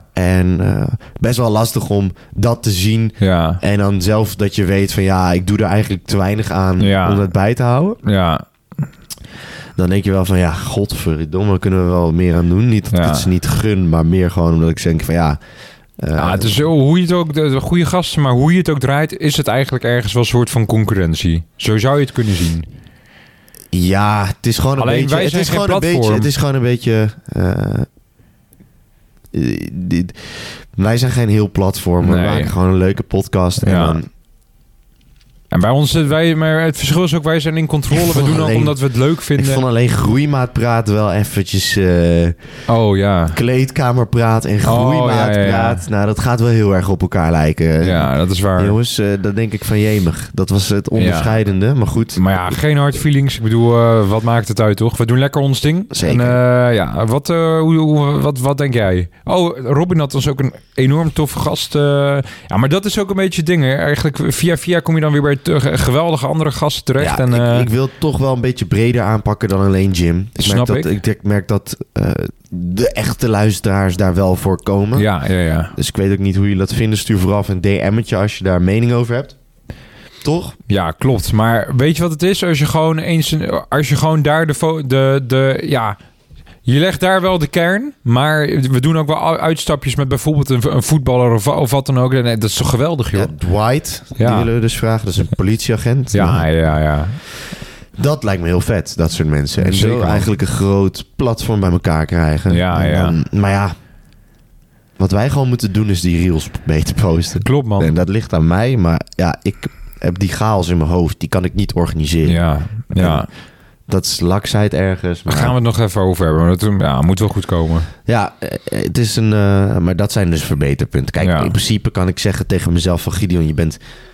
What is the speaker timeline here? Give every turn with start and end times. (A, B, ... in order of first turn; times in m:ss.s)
0:00.1-0:08.0 A
0:03.2-0:03.6 B
0:06.8-0:07.3 B
0:08.0-0:08.4 B
0:09.8-0:15.4 A
0:12.9-0:13.3 B
0:16.0-0:16.6 A
0:16.2-0:22.7 B
0:23.7-0:27.9 A
0:24.8-0:26.3 B
0:29.3-0:30.2 A
0:30.8-0:34.1 A
0:32.0-0:32.6 B
0:33.6-0:34.0 B
0:35.5-0:39.6 B
0:37.9-0:38.8 A
0:39.4-0:42.4 A
0:42.7-0:43.4 B
0:43.3-0:52.2 A
0:44.6-0:45.8 B
0:47.8-0:48.8 B
0:51.0-0:51.4 B
0:52.2-1:07.7 B
0:55.9-0:56.4 A
1:07.0-1:15.1 A
1:10.4-1:10.9 B
1:15.0-1:15.8 B
1:15.8-1:19.4 A
1:20.2-1:20.6 A
1:20.7-1:26.0 B
1:26.6-1:33.3 B
1:33.1-1:36.5 A
1:34.2-1:34.5 B
1:36.1-1:37.2 B
1:38.0-1:43.8 A
1:39.6-1:40.3 B
1:42.5-1:43.2 B
1:45.0-1:53.3 A
1:47.4-1:47.9 B
1:52.2-1:53.3 B
1:53.9-1:55.6 A
1:55.3-1:57.9 B
1:58.1-2:03.8 A
2:01.2-2:01.6 B